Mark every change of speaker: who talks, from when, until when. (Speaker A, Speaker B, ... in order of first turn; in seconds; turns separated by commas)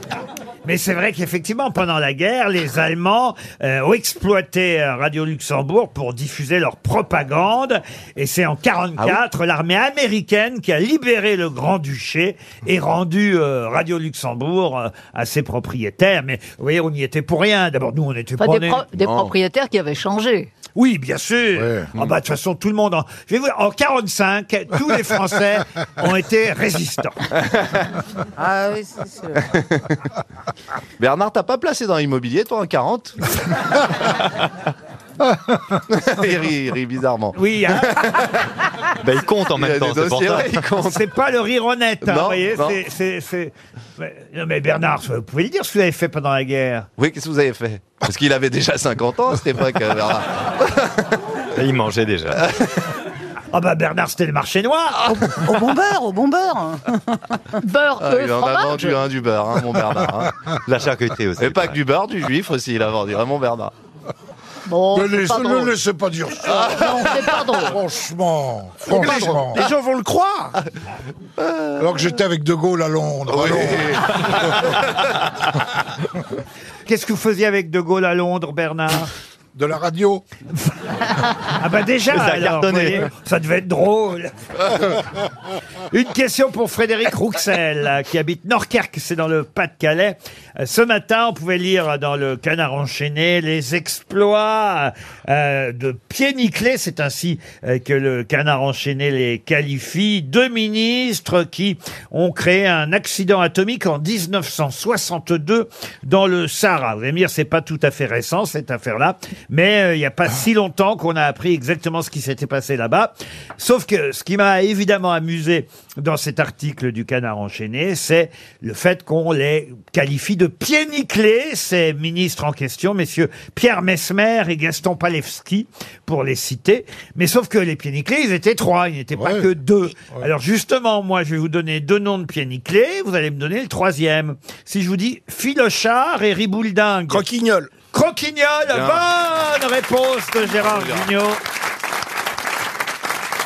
Speaker A: 0.6-18.8, Speaker B: 18.4-20.5, Speaker C: 19.0-19.3, Speaker A: 20.7-27.2, Speaker D: 21.6-21.9, Speaker C: 27.5-27.8, Speaker E: 28.4-29.4, Speaker C: 29.5-29.9, Speaker C: 31.0-33.2, Speaker C: 35.9-38.5, Speaker A: 37.3-38.2, Speaker F: 39.0-40.7, Speaker C: 39.5-41.0, Speaker A: 40.8-46.9, Speaker C: 42.0-42.8, Speaker C: 47.0-51.1, Speaker F: 51.5-52.4, Speaker C: 52.3-52.7, Speaker A: 53.5-55.1, Speaker E: 55.0-57.5, Speaker B: 57.6-58.9, Speaker C: 58.0-60.3, Speaker F: 60.6-61.8, Speaker C: 61.4-63.7, Speaker B: 64.7-65.8, Speaker D: 64.9-69.7, Speaker C: 66.5-67.2, Speaker B: 66.7-67.8, Speaker G: 68.8-70.6, Speaker C: 71.4-72.0, Speaker D: 71.8-74.4, Speaker C: 73.3-75.0, Speaker A: 76.8-79.1, Speaker D: 79.5-80.2, Speaker A: 81.5-85.0, Speaker F: 82.1-83.1, Speaker A: 85.9-137.2, Speaker D: 129.2-129.5, Speaker G: 137.1-137.7, Speaker A: 137.9-141.4, Speaker C: 138.7-139.0, Speaker C: 140.6-141.1